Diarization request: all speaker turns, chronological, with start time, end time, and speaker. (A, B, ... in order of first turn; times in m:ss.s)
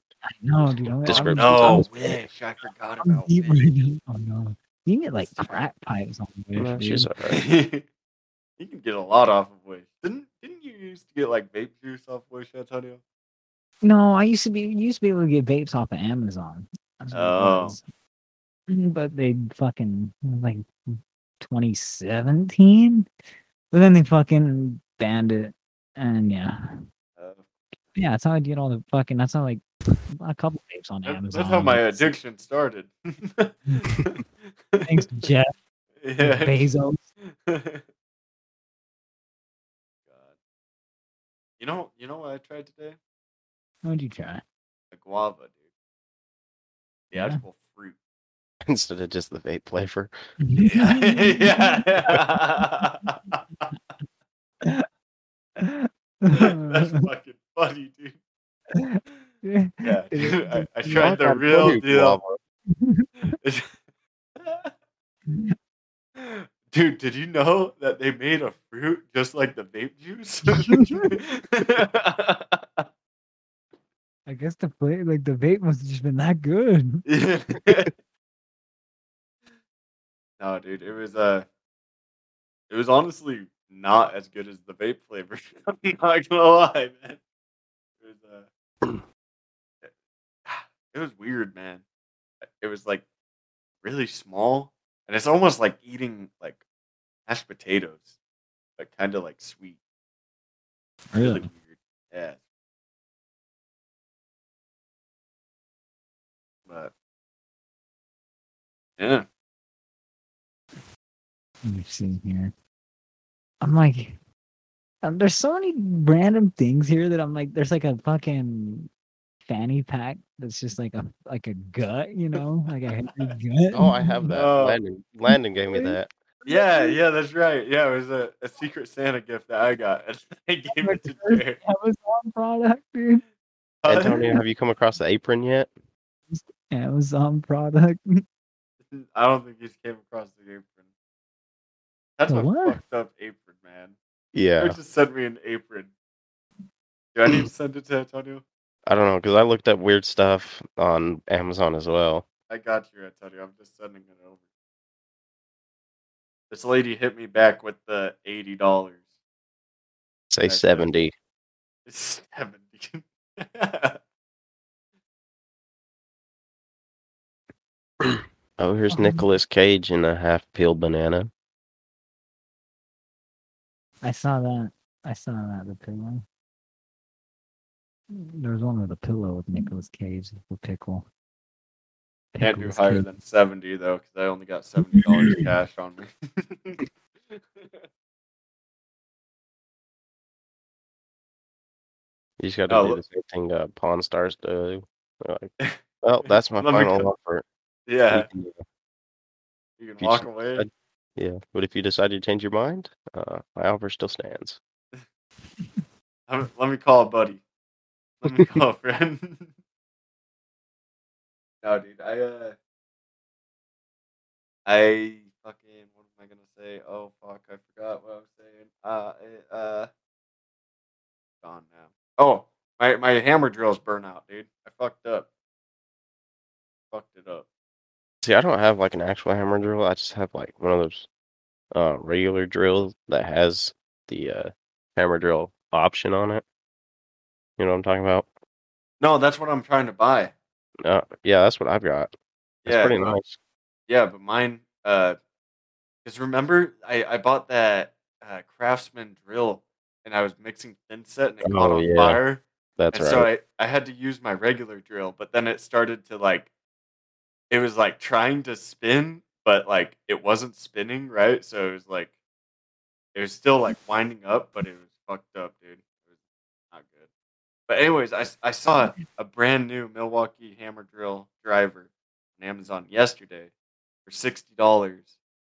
0:00.3-0:02.1 A
0:00.9-0:02.2 B
0:01.1-0:03.7 C
0:03.0-0:07.1 A
0:05.3-0:05.6 C
0:06.6-0:07.4 B
0:07.3-0:07.8 C
0:08.6-0:13.0 C
0:13.8-0:17.8 A
0:17.1-0:17.8 C
0:18.7-0:20.7 A
0:21.4-0:23.1 A
0:23.7-0:26.8 A
0:27.2-0:27.5 C
0:28.0-0:32.1 A
0:31.1-0:35.3 C
0:34.9-0:35.5 A
0:36.0-0:36.7 C
0:36.2-0:37.0 A
0:37.3-0:37.8 C
0:41.6-0:43.0 C
0:43.8-0:44.4 A
0:44.9-0:45.6 C
0:47.1-0:48.0 C
0:47.2-0:47.4 A
0:48.6-0:50.1 B
0:50.4-0:51.8 A
0:50.7-0:53.4 C
0:55.6-0:57.0 A
0:56.3-0:58.2 C
0:58.8-1:01.1 A
0:59.8-1:02.2 C
1:01.0-1:02.4 B
1:02.7-1:03.4 A
1:03.4-1:03.8 C
1:04.4-1:04.7 C
1:05.3-1:05.6 A
1:06.2-1:12.9 C
1:10.6-1:11.1 A
1:14.3-1:17.0 A
1:17.1-1:17.9 C
1:20.4-1:21.5 C
1:22.7-1:27.2 C
1:28.0-1:28.5 C
1:30.5-1:31.8 C
1:32.4-1:33.0 C
1:33.8-1:36.6 C
1:37.3-1:38.1 C
1:38.8-1:39.8 C
1:41.1-1:41.5 A
1:41.2-1:42.4 C
1:49.0-1:49.3 C
1:51.6-1:52.5 A
1:53.6-1:54.2 A
1:55.0-1:58.9 A
1:59.5-2:04.4 A
2:03.7-2:06.1 B
2:04.3-2:04.8 C
2:05.3-2:07.0 A
2:06.5-2:11.6 C
2:10.7-2:13.2 A
2:13.8-2:14.3 C
2:13.9-2:15.7 B
2:14.1-2:14.4 A
2:16.3-2:18.2 A
2:18.9-2:20.8 C
2:22.2-2:24.0 C
2:22.3-2:22.8 A
2:24.3-2:24.8 B
2:24.6-2:25.9 C
2:27.1-2:28.4 C
2:28.9-2:32.3 B
2:32.5-2:34.4 C
2:36.5-2:39.1 C
2:40.3-2:41.1 B
2:40.4-2:40.9 C
2:41.9-2:44.0 C
2:48.6-2:51.3 B
2:48.9-2:49.2 A
2:54.0-2:56.2 A
2:58.1-3:01.1 A
3:02.3-3:03.1 A
3:02.4-3:07.8 C
3:05.0-3:05.4 A
3:12.4-3:15.5 B
3:12.7-3:13.0 C
3:15.6-3:17.1 C
3:16.0-3:17.4 B
3:17.9-3:18.3 C
3:18.1-3:18.6 B
3:19.8-3:20.7 C
3:20.0-3:24.6 B
3:26.3-3:27.4 C
3:28.2-3:29.5 C
3:31.6-3:32.6 C
3:34.7-3:39.9 C
3:41.4-3:45.3 C
3:46.9-3:47.5 C
3:48.2-3:51.1 B
3:51.7-3:56.4 B
3:57.6-3:58.3 B
3:59.0-4:00.3 C
4:00.8-4:02.1 B
4:02.6-4:03.2 C
4:02.7-4:03.4 B
4:03.9-4:05.2 C
4:06.0-4:16.5 C
4:11.4-4:12.2 B
4:12.8-4:13.3 B
4:17.5-4:22.1 C
4:23.2-4:25.9 C
4:26.7-4:27.1 C
4:27.7-4:33.5 C
4:28.8-4:29.0 A
4:34.1-4:35.1 C